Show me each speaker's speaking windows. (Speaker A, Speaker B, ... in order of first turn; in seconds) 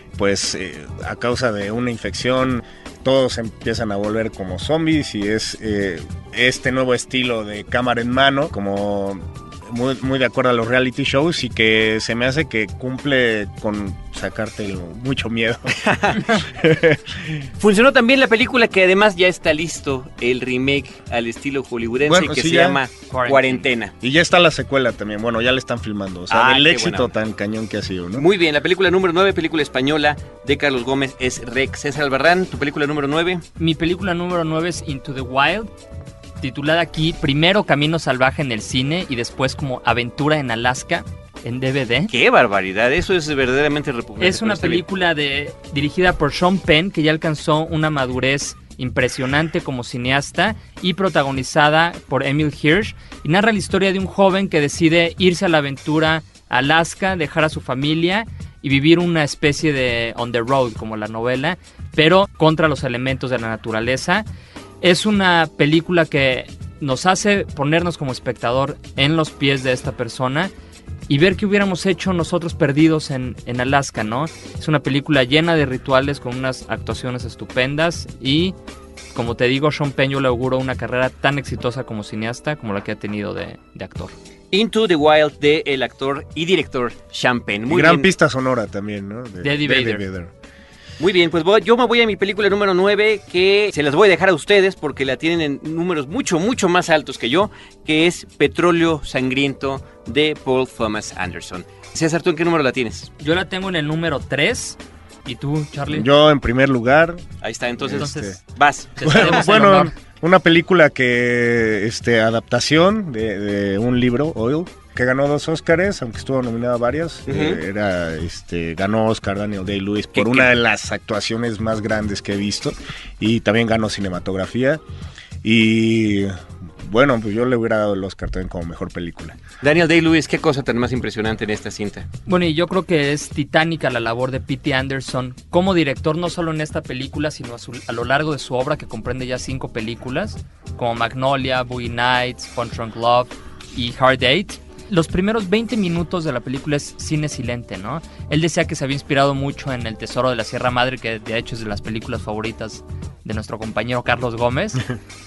Speaker A: 0.2-15.8, 16.3-17.4, 22.0-22.8, 24.0-28.2, 87.7-90.3, 105.9-107.2, 107.8-108.4, 109.0-124.8, 125.4-129.4
Speaker B: 15.8-16.2, 17.6-23.9, 26.3-27.1, 28.1-33.4, 42.1-44.8, 84.5-88.1, 91.0-103.1, 107.4-109.5, 117.3-117.6, 120.1-120.5, 129.6-132.1
Speaker C: 23.1-23.7, 33.6-35.7, 36.4-42.1, 44.2-64.2, 64.8-70.5, 71.1-78.5, 79.1-84.1, 89.4-90.0, 103.2-106.1, 107.9-108.4, 108.9-109.9, 132.3-154.8